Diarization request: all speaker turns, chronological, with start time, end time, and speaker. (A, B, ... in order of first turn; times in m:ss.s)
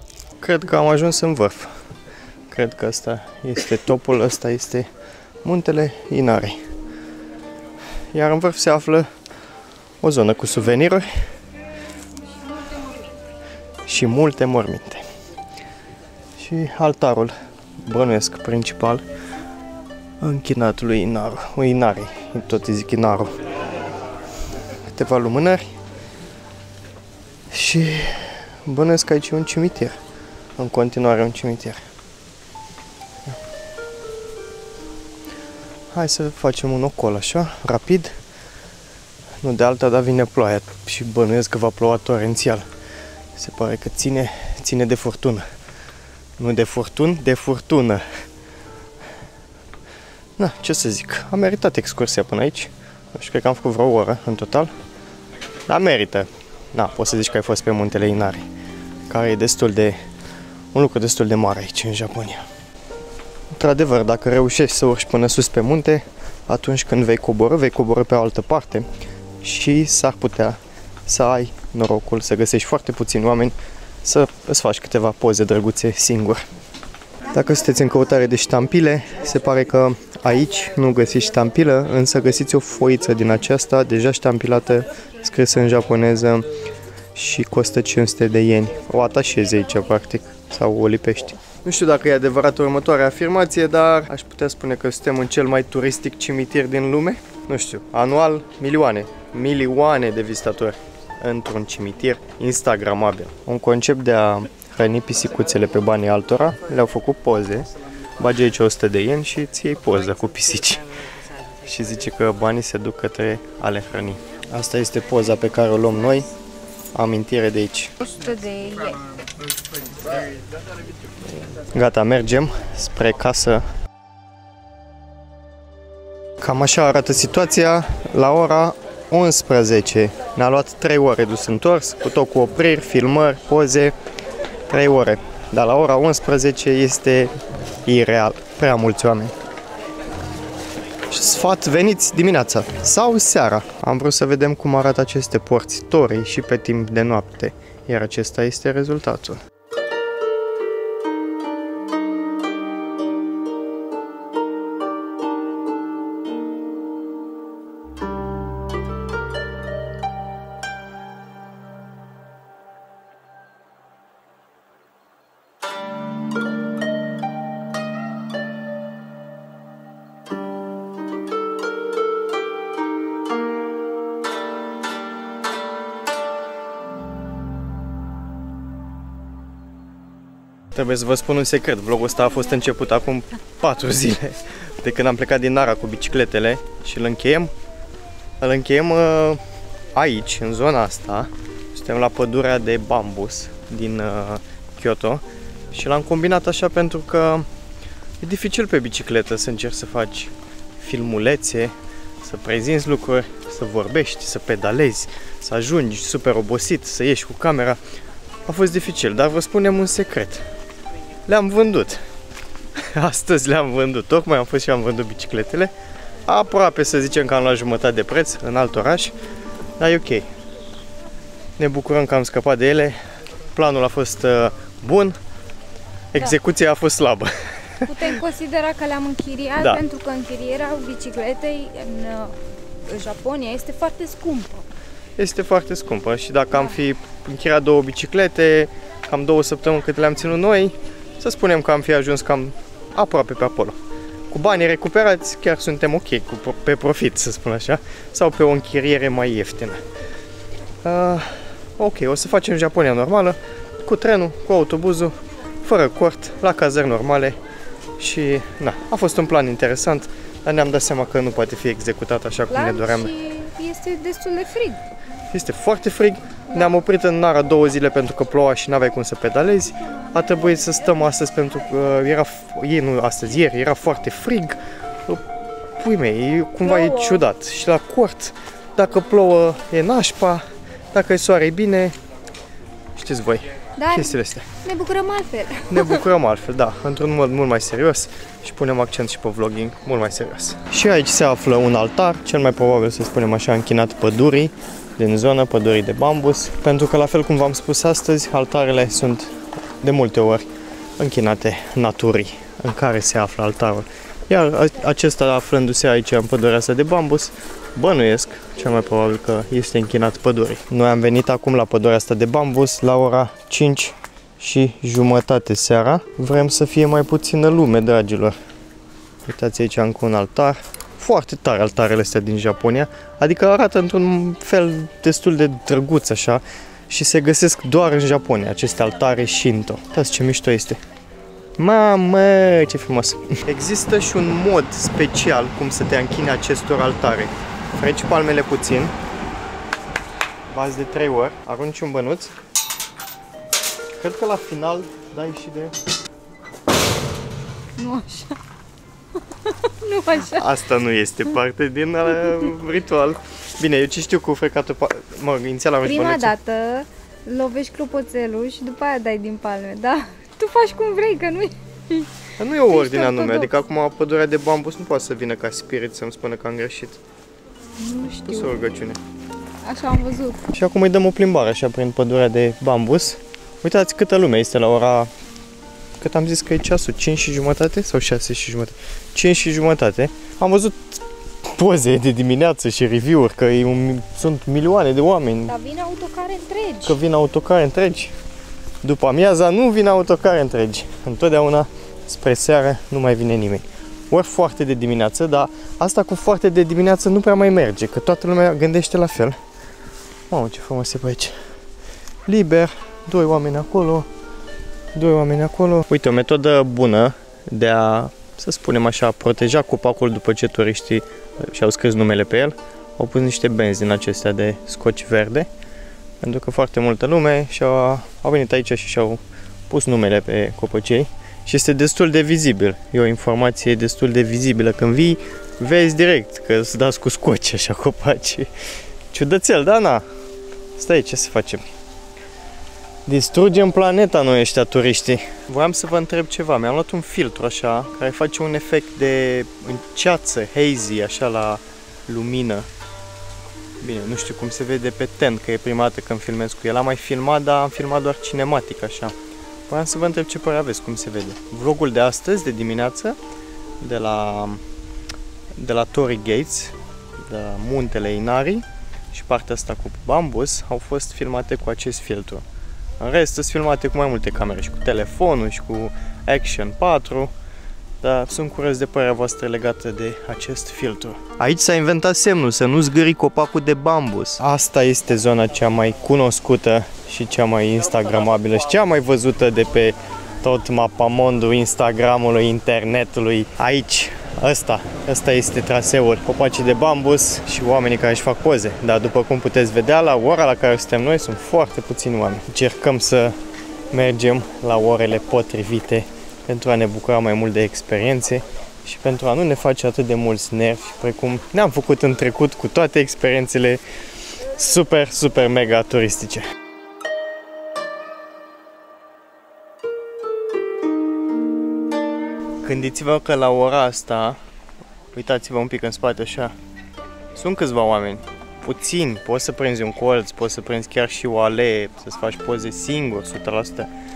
0:00.4-0:01.8 A
0:02.5-0:04.9 A
0:05.4-0:06.6 A
0:08.1-0:09.1 A
0:10.0-0:11.1 A
0:13.8-0:15.0 A
0:16.4-0:19.0 A
0:20.2-0:23.3 A
0:24.9-0:25.7 A
0:27.5-0:30.0 A
0:30.6-0:31.8 A
0:35.9-0:38.2 A
0:39.4-0:42.6 A
0:43.4-0:45.4 A
0:46.4-0:48.0 A
0:50.4-0:54.7 A
0:55.7-0:58.5 A
0:59.1-1:00.0 A
1:00.7-1:02.4 A
1:03.5-1:08.9 A
1:09.4-1:16.4 A
1:17.3-1:26.5 A
1:27.2-1:47.7 A
1:48.2-1:50.9 A
1:51.6-1:56.3 A
1:57.0-1:57.9 A
1:58.0-1:59.0 B
2:01.5-2:03.6 A
2:06.4-2:14.0 A
2:14.7-2:17.3 A
2:17.8-2:19.3 A
2:21.1-2:29.4 A
3:00.8-3:07.5 A
3:08.4-3:09.4 A
3:10.0-3:17.5 A
3:18.2-3:27.8 A
3:28.5-3:30.4 A
3:31.3-3:32.0 A
3:32.8-3:35.7 A
3:36.3-3:39.2 A
3:39.8-3:40.3 A
3:41.6-3:43.0 A
3:43.6-3:45.2 A
3:46.1-3:48.2 A
3:47.8-3:54.7 B
3:55.2-4:03.8 A
4:04.3-4:09.8 A
4:10.8-4:17.4 A
4:18.0-4:23.1 A
4:22.5-4:24.8 B
4:25.3-4:42.0 A
4:36.6-4:37.3 B
4:43.0-4:44.5 A
4:43.8-4:46.0 B
4:45.7-5:00.5 A
5:01.0-5:18.4 A
5:19.2-5:30.8 A
5:31.6-5:39.0 A
5:40.5-5:42.3 A
5:44.0-5:45.8 A
5:47.8-5:48.4 B
5:49.3-5:50.5 B
5:50.2-5:56.3 A
5:55.8-6:03.6 B
6:02.4-6:07.0 A
6:07.8-6:08.8 B
6:08.2-6:09.0 A
6:09.6-6:10.5 B
6:10.5-6:15.1 A
6:16.0-6:25.6 A
6:25.5-6:27.0 B
6:26.8-6:28.2 A
6:28.8-6:39.4 A
6:40.3-6:41.4 A
6:42.3-6:44.1 A
6:44.9-6:55.5 A
6:56.2-7:08.5 A
7:09.1-7:10.0 A
7:10.8-7:11.7 A
7:13.1-7:22.7 A
7:23.8-7:29.1 A
7:29.7-7:33.2 A
7:33.8-7:34.6 A
7:35.6-7:42.4 A
7:43.0-7:47.3 A
7:48.0-8:13.4 A
8:13.9-8:23.8 A
8:24.5-8:26.5 A
8:32.6-8:34.4 A
8:35.1-8:36.6 A
8:37.4-8:43.9 A